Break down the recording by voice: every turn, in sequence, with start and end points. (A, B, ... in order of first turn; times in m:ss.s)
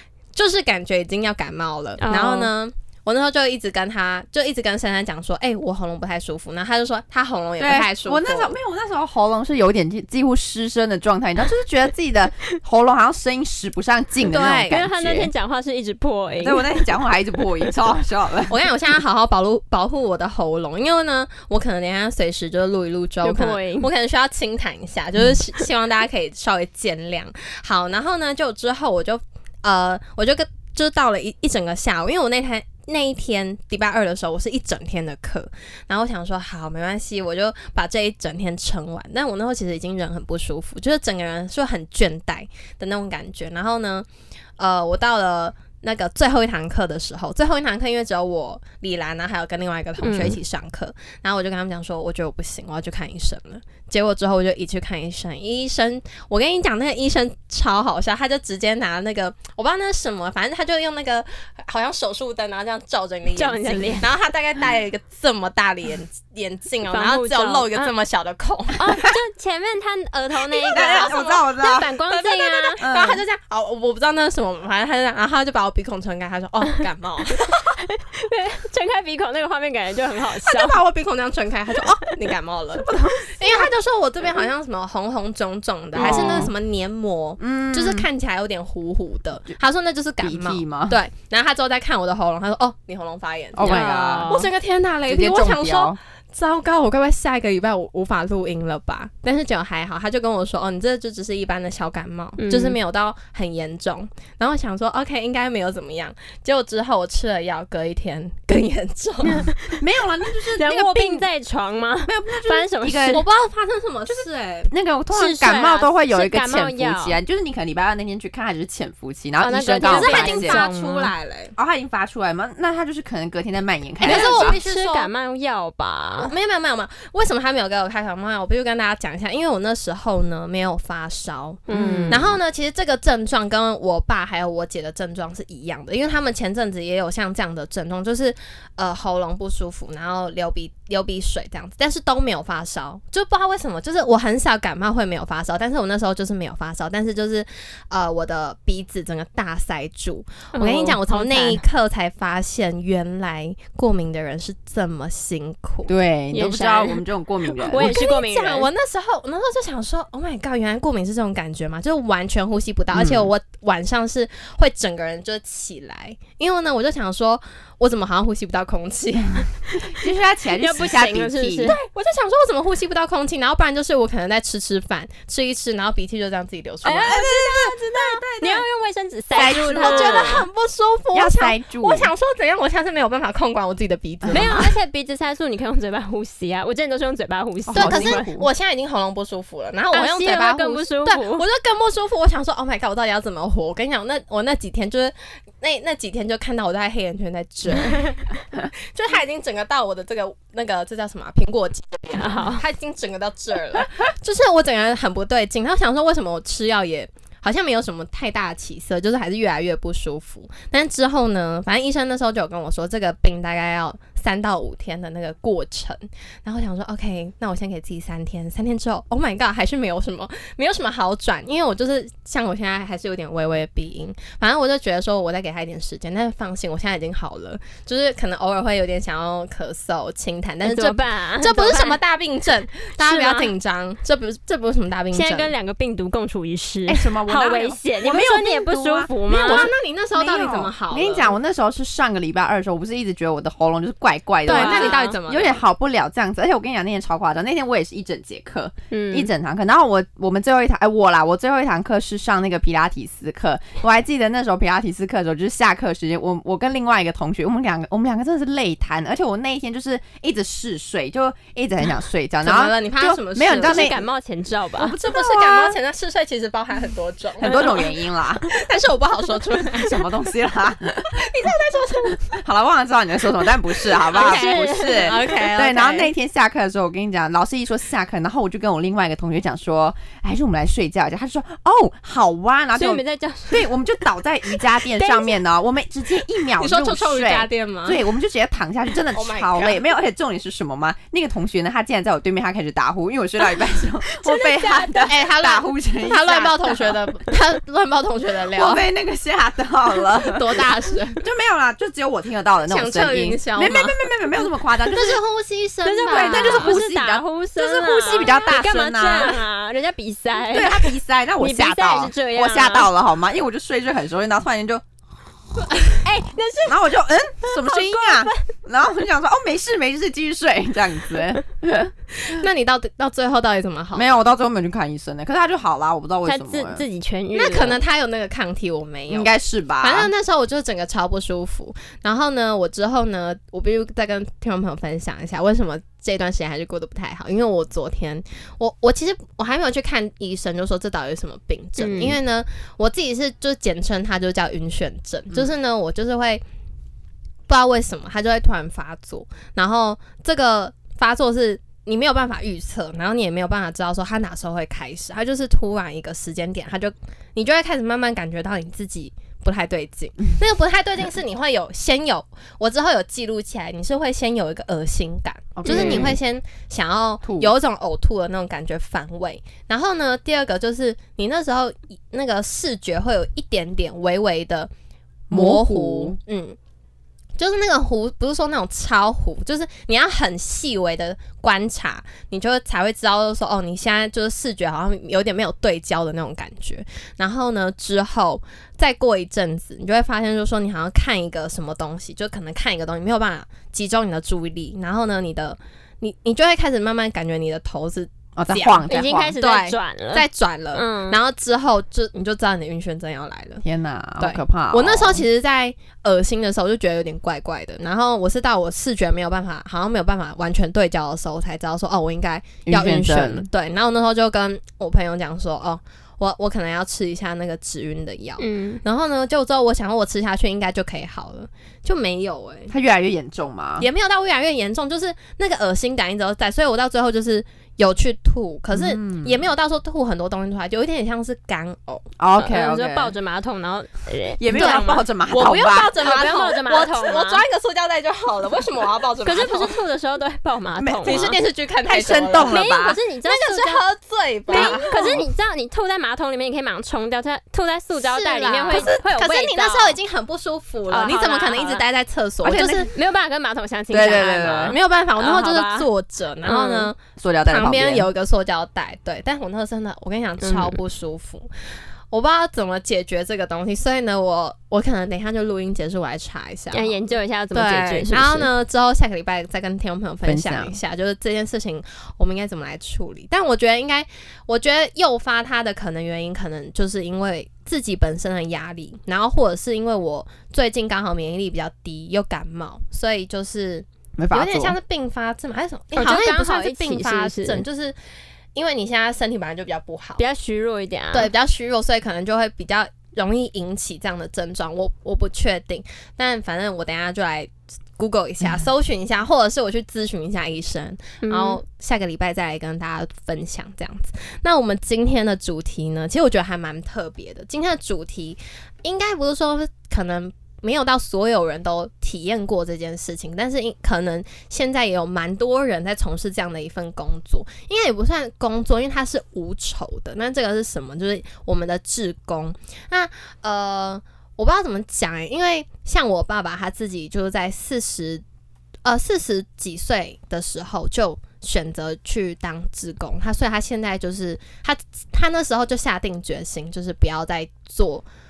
0:00.3-0:08.5 A
0:02.0-0:02.5 B
0:07.6-0:15.3 C
0:14.2-0:14.8 A
0:14.7-0:16.7 B
0:16.4-0:18.5 C
0:18.5-0:44.0 A
0:23.2-0:23.9 B
0:44.6-1:08.9 A
0:50.0-0:50.4 B
1:03.3-1:04.1 B
1:06.9-1:07.9 B
1:08.8-1:12.8 B
1:10.6-1:17.8 A
1:10.7-1:11.9 C
1:12.8-1:13.2 C
1:17.5-1:20.8 B
1:20.4-1:49.5 A
1:22.8-1:23.3 C
1:25.9-1:26.5 C
1:26.0-1:26.5 B
1:27.4-1:28.1 C
1:30.2-1:31.0 C
1:33.6-1:34.3 C
1:33.6-1:34.5 B
1:35.1-1:36.0 C
1:42.4-1:42.8 B
1:49.2-1:49.8 B
1:49.8-1:51.2 C
1:50.5-1:53.2 B
1:52.1-1:53.2 C
1:53.1-1:54.7 A
1:54.7-2:00.7 C
1:55.1-1:57.2 B
1:59.4-2:01.1 B
1:59.8-2:01.5 A
2:01.6-2:04.6 C
2:04.0-2:05.1 A
2:04.0-2:06.3 B
2:06.2-2:35.9 A
2:11.7-2:12.2 B
2:11.7-2:12.4 C
2:30.5-2:31.6 B
2:35.9-2:38.0 C
2:36.3-2:37.0 B
2:37.6-2:38.7 B
2:37.7-2:49.5 A
2:42.9-2:43.3 C
2:49.8-2:51.7 C
2:50.6-2:51.8 B
2:51.6-2:57.2 A
2:56.8-3:00.4 B
2:57.0-2:58.6 C
2:59.3-3:00.4 C
2:59.4-3:04.7 A
3:01.1-3:02.1 C
3:04.2-3:04.7 C
3:04.3-3:08.2 B
3:07.7-3:55.5 A
3:07.7-3:08.5 C
3:09.9-3:11.4 B
3:22.1-3:22.6 B
3:50.6-3:52.0 B
3:53.0-3:53.5 B
3:55.1-3:59.7 B
3:56.9-4:24.0 C
3:59.3-4:01.3 A
4:04.4-4:05.6 A
4:04.5-4:05.2 B
4:08.9-4:09.3 B
4:22.4-4:24.0 A
4:23.6-4:24.9 B
4:24.8-4:27.9 A
4:25.0-4:25.8 C
4:27.4-4:28.5 C
4:27.4-4:27.8 B
4:28.5-4:30.3 A
4:29.7-4:31.3 C
4:31.0-4:32.4 A
4:32.3-4:57.0 C
4:33.8-4:36.1 A
4:34.1-4:35.3 B
4:42.8-4:43.7 B
4:44.9-4:45.4 B
4:46.5-4:48.0 A
4:49.1-4:49.8 A
4:54.0-4:55.1 B
4:55.1-4:58.8 A
4:58.5-5:00.6 C
4:59.9-5:01.2 A
5:01.2-5:05.2 C
5:02.6-5:04.1 A
5:04.8-5:06.8 A
5:05.8-5:12.9 B
5:06.1-5:09.4 C
5:10.4-5:14.8 C
5:16.0-5:16.8 B
5:16.6-5:22.4 C
5:17.4-5:18.4 B
5:22.2-5:24.1 A
5:23.9-5:26.8 C
5:26.2-5:27.8 B
5:27.3-5:46.4 A
5:29.1-5:30.1 C
5:41.8-5:42.2 B
5:47.5-6:14.7 A
6:05.6-6:06.2 C
6:05.6-6:06.1 B
6:07.2-6:07.5 C
6:15.3-6:16.2 C
6:15.3-6:16.6 A
6:17.4-6:38.9 A
6:38.4-6:39.4 C
6:38.9-6:41.2 B
6:39.4-6:43.6 A
6:43.6-6:45.2 C
6:44.2-7:02.7 A
6:52.6-6:53.5 C
6:58.4-6:58.8 B
7:02.7-7:03.9 C
7:03.8-7:12.0 A
7:08.7-7:09.4 C
7:12.2-7:13.1 C
7:12.4-7:15.0 B
7:14.4-7:16.0 C
7:14.5-7:19.8 A
7:16.0-7:17.4 B
7:19.2-7:21.3 B
7:20.8-7:23.0 C
7:21.0-7:22.6 A
7:22.4-7:23.8 B
7:23.2-7:25.2 A
7:24.5-7:30.0 B
7:24.5-7:25.2 C
7:28.0-7:32.9 A
7:30.9-7:31.8 B
7:32.4-7:32.8 C
7:32.5-7:35.9 B
7:33.9-7:34.8 C
7:34.6-7:41.5 A
7:36.4-7:36.9 B
7:37.2-7:38.1 C
7:40.4-7:40.8 B
7:42.1-8:08.0 A
7:46.7-7:48.5 B
7:50.2-7:50.8 C
8:04.2-8:04.8 C
8:05.9-8:07.6 B
8:08.5-8:10.2 A
8:10.2-8:11.3 B
8:11.1-8:48.2 A
8:21.2-8:21.6 B
8:48.8-8:58.0 A